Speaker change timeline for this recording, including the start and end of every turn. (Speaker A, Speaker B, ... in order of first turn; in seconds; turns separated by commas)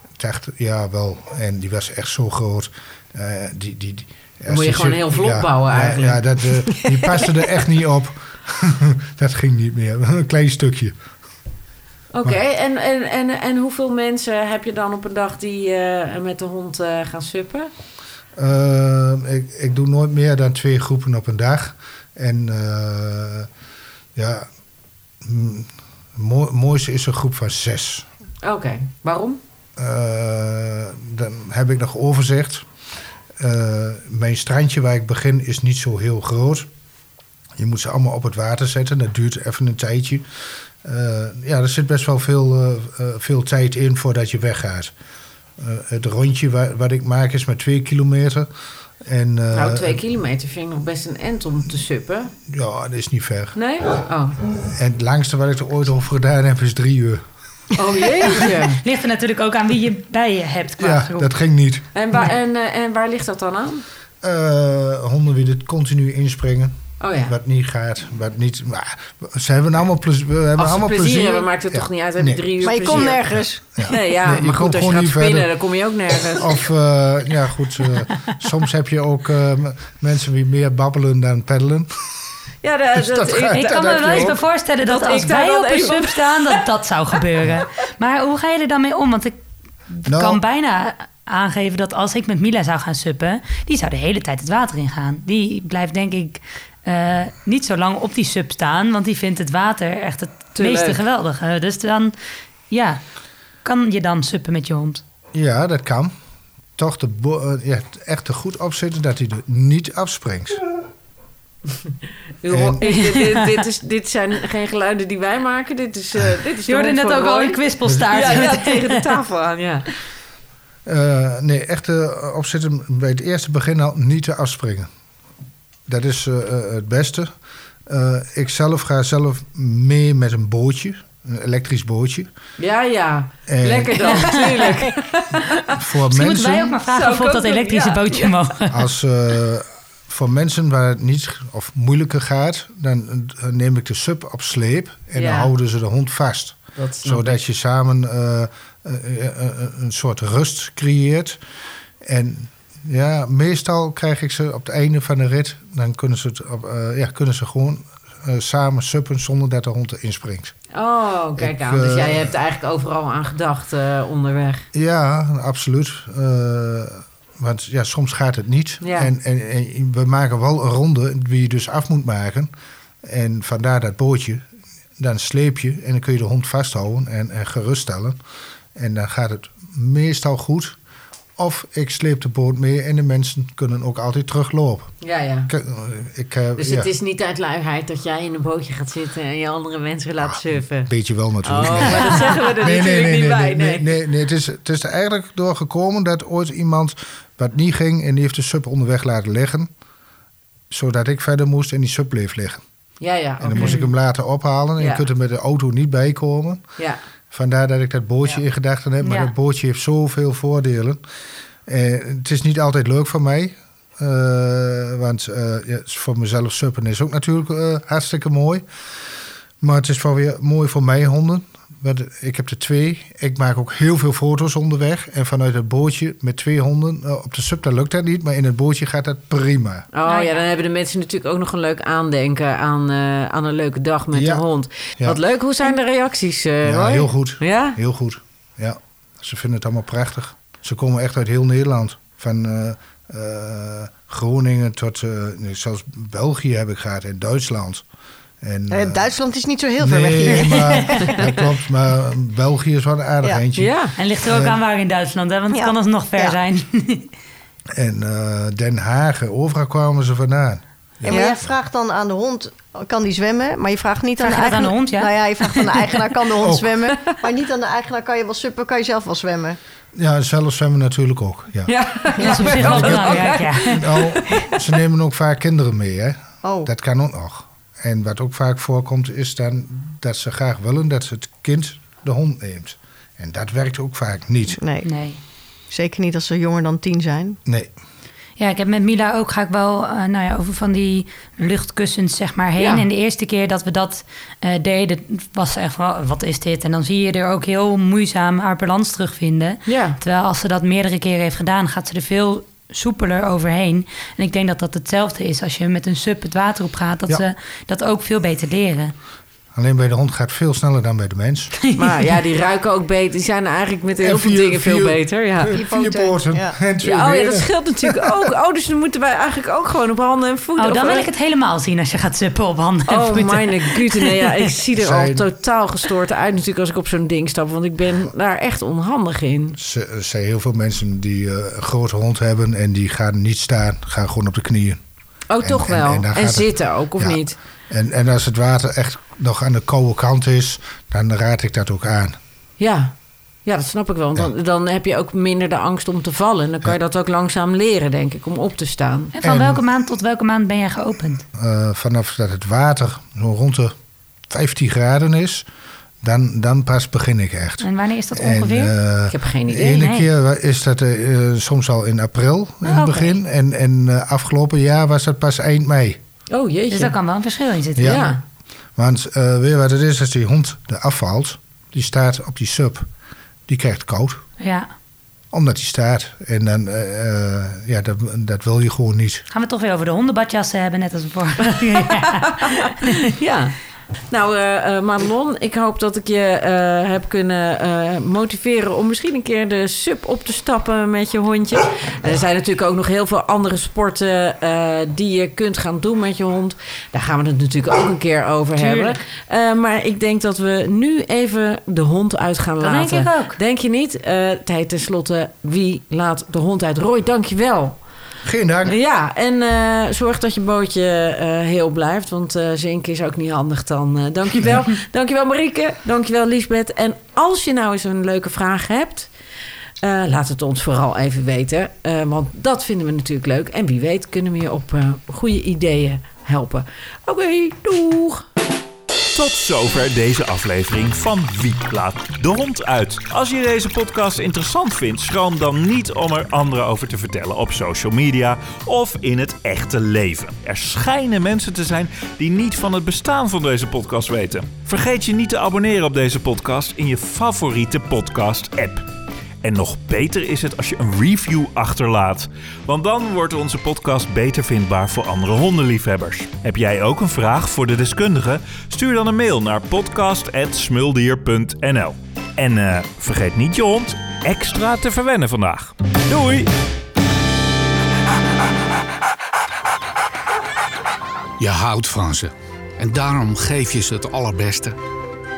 Speaker A: 0.2-10.9, Speaker B: 4.5-6.8, Speaker B: 12.1-17.7, Speaker A: 18.4-23.5, Speaker A: 24.2-24.5, Speaker A: 25.2-28.1, Speaker B: 28.4-29.4, Speaker A: 29.8-32.7, Speaker A: 33.4-36.7, Speaker A: 37.6-44.9, Speaker A: 45.6-48.5, Speaker A: 49.0-50.0, Speaker B: 49.5-52.3, Speaker A: 52.5-53.6, Speaker B: 53.5-54.4, Speaker A: 54.6-57.2, Speaker B: 57.8-58.8, Speaker A: 58.2-58.6, Speaker C: 58.8-61.3, Speaker A: 60.8-61.9, Speaker B: 61.9-63.9, Speaker A: 64.2-75.5, Speaker B: 67.0-67.4, Speaker B: 70.6-76.5, Speaker D: 72.6-74.0, Speaker A: 76.3-82.3, Speaker B: 82.6-86.6, Speaker A: 82.9-84.4, Speaker C: 83.7-89.4, Speaker C: 89.9-102.2, Speaker A: 90.1-90.4, Speaker B: 100.6-101.0, Speaker C: 102.7-103.0, Speaker C: 103.6-105.0, Speaker A: 105.3-106.2, Speaker A: 106.8-110.6, Speaker B: 112.4-117.6, Speaker A: 112.5-112.8, Speaker C: 112.8-113.5, Speaker C: 116.7-119.0, Speaker A: 117.8-118.4, Speaker B: 118.1-119.9, Speaker A: 120.9-124.9, Speaker A: 125.9-127.3, Speaker A: 127.9-132.3, Speaker B: 132.6-135.8, Speaker A: 133.5-134.5, Speaker C: 134.1-134.4, Speaker A: 135.7-136.7, Speaker C: 136.1-138.9, Speaker B: 136.8-138.3, Speaker A: 138.7-151.4, Speaker B: 145.2-145.5, Speaker B: 146.8-147.4, Speaker A: 152.0-160.6, Speaker B: 160.7-164.7, Speaker A: 161.4-162.3, Speaker A: 164.7-172.5, Speaker B: 168.8-169.1, Speaker A: 173.0-174.4, Speaker A: 175.0-178.2, Speaker A: 178.8-180.8, Speaker A: 181.4-184.9, Speaker B: 185.0-185.5, Speaker A: 185.5-186.9, Speaker B: 186.6-190.9, Speaker A: 190.2-199.7, Speaker B: 191.4-194.0, Speaker A: 200.7-202.6, Speaker B: 203.0-203.9, Speaker A: 203.4-206.6, Speaker C: 203.6-203.8, Speaker B: 204.8-205.1, Speaker A: 207.3-211.0, Speaker C: 209.0-209.3, Speaker A: 211.7-218.6, Speaker A: 219.6-229.9, Speaker B: 229.9-237.8, Speaker C: 230.1-230.4, Speaker A: 234.1-234.4, Speaker A: 236.6-247.8, Speaker A: 248.4-249.1, Speaker D: 248.7-251.4, Speaker A: 249.8-254.6, Speaker C: 250.4-251.1, Speaker B: 253.6-253.9, Speaker C: 254.0-257.1, Speaker D: 255.5-256.4, Speaker A: 257.7-261.6, Speaker D: 261.1-269.6, Speaker C: 261.1-261.4, Speaker C: 264.2-265.9, Speaker A: 266.4-266.7, Speaker A: 269.9-271.8, Speaker B: 271.7-274.5, Speaker C: 272.2-274.1, Speaker A: 272.3-284.6, Speaker D: 276.4-276.7, Speaker D: 284.6-284.9, Speaker C: 284.9-285.2, Speaker D: 285.7-287.4, Speaker A: 287.5-287.7, Speaker C: 288.4-308.9, Speaker B: 292.6-292.9, Speaker B: 299.7-300.0, Speaker A: 309.5-311.6, Speaker B: 311.8-315.6, Speaker A: 314.0-318.2, Speaker D: 315.5-316.6, Speaker B: 316.8-321.1, Speaker C: 320.6-324.1, Speaker B: 322.9-329.6, Speaker A: 324.8-325.3, Speaker A: 329.6-334.8, Speaker B: 335.3-337.4, Speaker A: 335.4-342.2, Speaker B: 342.6-342.9, Speaker B: 343.4-349.1, Speaker C: 349.1-351.2, Speaker A: 349.2-349.6, Speaker A: 351.3-353.8, Speaker A: 354.3-355.5, Speaker A: 356.0-366.0, Speaker C: 357.6-358.7, Speaker B: 359.1-359.9, Speaker C: 359.8-360.1, Speaker C: 362.6-363.2, Speaker B: 366.3-367.0, Speaker C: 366.7-368.1, Speaker A: 367.8-368.1, Speaker B: 367.9-368.2, Speaker A: 368.8-372.9, Speaker A: 373.5-374.2, Speaker C: 374.4-374.7, Speaker A: 375.3-379.3, Speaker C: 379.3-383.0, Speaker B: 382.1-383.6, Speaker B: 384.1-407.8, Speaker C: 398.6-399.0, Speaker C: 402.6-403.4, Speaker A: 408.2-408.8, Speaker B: 408.6-419.1, Speaker B: 419.8-428.3, Speaker E: 429.1-448.9, Speaker E: 449.4-466.5, Speaker F: 471.4-474.8